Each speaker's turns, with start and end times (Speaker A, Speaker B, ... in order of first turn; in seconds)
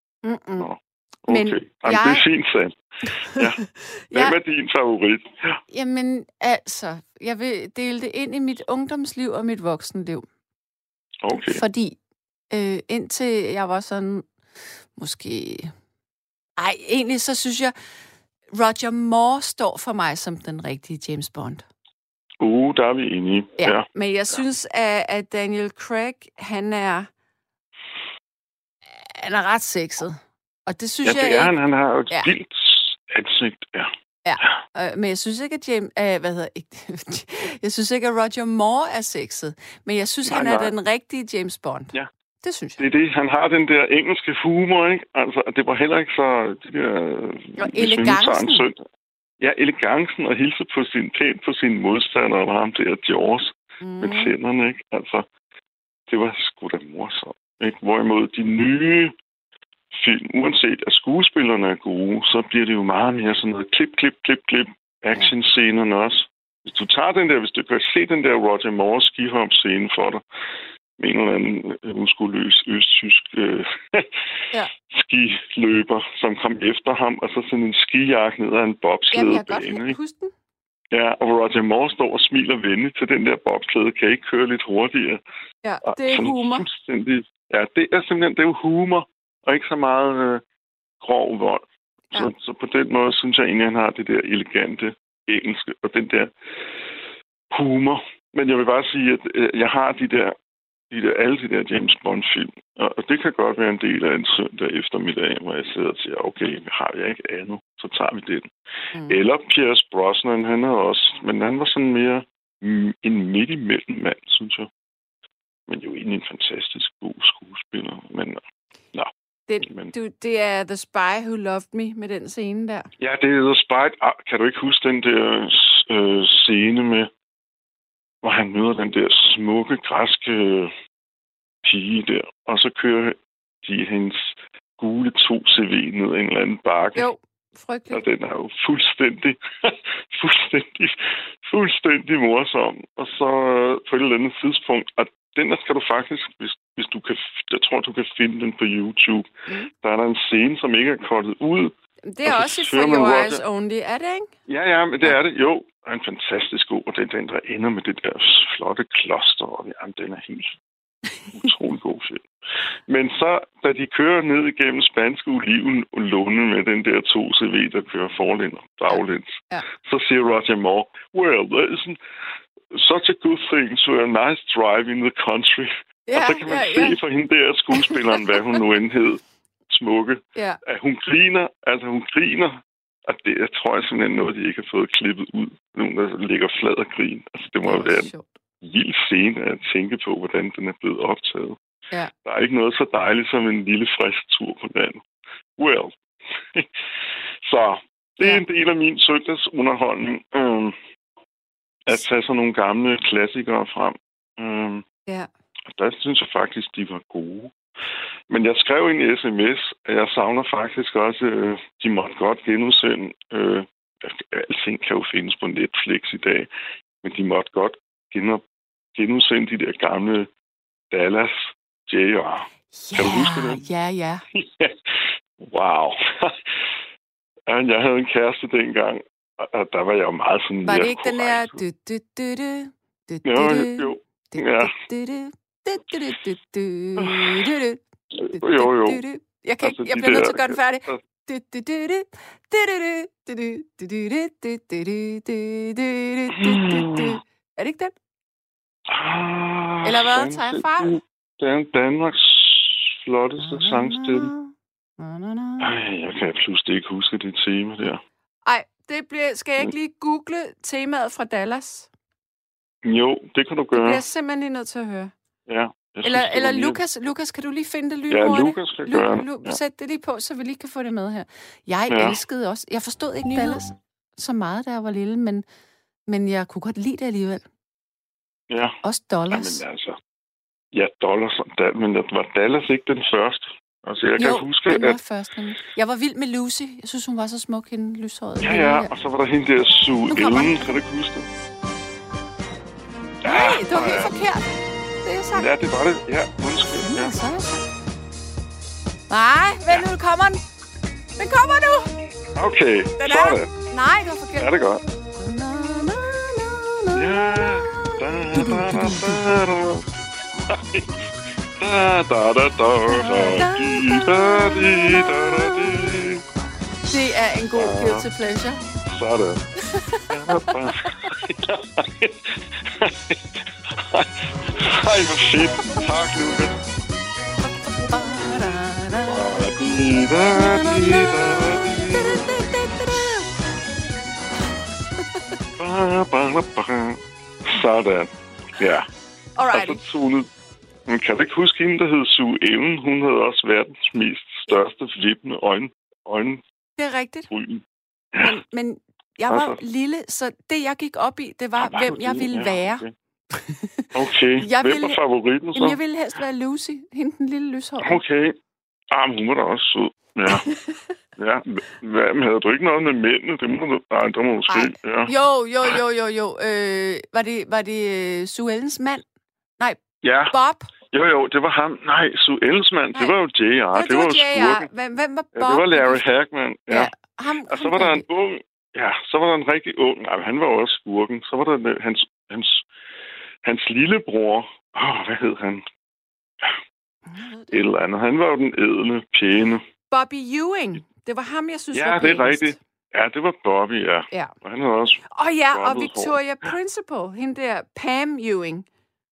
Speaker A: 0.2-0.7, 1.3-2.2, 3.2-4.4, 5.7-10.2, 11.3-12.0, 12.5-14.3, 14.9-15.7, 16.6-17.7, 18.5-21.7, 23.6-27.1, 28.9-31.5, 34.2-42.9, 47.6-48.7, 53.8-54.3, 79.1-80.3, 85.6-86.7, 108.9-109.2, 119.5-122.9, 136.9-138.0, 152.1-154.3, 168.9-169.7, 176.1-177.0, 187.6-188.3, 222.7-224.2, 230.6-247.9, 249.8-251.0, 253.4-255.7, 258.4-261.9, 263.7-265.1, 266.0-275.4, 276.1-277.4, 278.8-279.6, 284.2-288.9, 290.1-290.8, 293.2-295.5, 296.8-297.7, 299.1-300.4, 301.2-301.9, 303.0-304.5, 305.1-309.2, 312.9-316.1, 316.8-318.6, 319.6-321.1, 325.6-325.9, 327.9-333.3, 339.4-339.9, 346.8-347.3, 348.2-355.0, 355.6-358.0, 360.4-360.8, 364.5-369.0, 369.6-370.7, 373.7-376.1, 376.7-378.1, 387.1-387.7, 389.9-392.6, 395.1-398.7
Speaker B: 0.6-5.6, 11.2-11.6, 22.4-23.9, 31.1-34.5, 40.3-40.8, 42.8-48.8, 49.4-55.3, 56.1-59.1, 59.9-70.2, 71.0-74.1, 74.9-80.0, 80.9-85.2, 85.9-90.4, 91.0-96.3, 97.5-100.4, 100.9-108.5, 109.1-114.7, 115.7-118.4, 119.6-119.9, 123.0-127.1, 128.2-130.7, 131.6-137.1, 137.9-151.7, 152.2-153.4, 154.5-160.6, 161.3-172.0, 172.7-191.6, 192.2-195.1, 195.6-196.7, 197.4-200.8, 201.9-204.8, 205.7-207.5, 208.3-216.5, 217.0-218.4, 218.9-220.3, 220.9-223.7, 224.3-226.6, 227.5-231.6, 233.2-234.7, 237.0-237.4, 238.2-239.0, 239.6-241.0, 246.3-247.2, 248.9-254.3, 255.6-258.0, 262.8-264.0, 265.5-266.8, 268.1-269.6, 271.9-272.2, 278.5-278.8, 279.3-280.0, 280.7-285.0, 288.4-291.3, 293.2-294.1, 295.4-297.2, 302.3-303.5, 304.4-304.8, 306.9-309.9, 310.4-311.0, 311.6-316.2, 317.6-318.1, 318.9-319.5, 320.1-326.6, 329.1-332.3, 335.6-338.9, 339.5-340.3, 340.9-346.4, 347.3-348.4, 349.3-349.6, 351.6-352.9, 353.9-355.8, 357.8-358.4, 358.9-360.5, 361.2-365.1, 370.0-370.3, 370.9-374.7, 375.3-376.9, 377.5-382.6, 383.4-385.6, 387.5-389.6, 391.7-396.6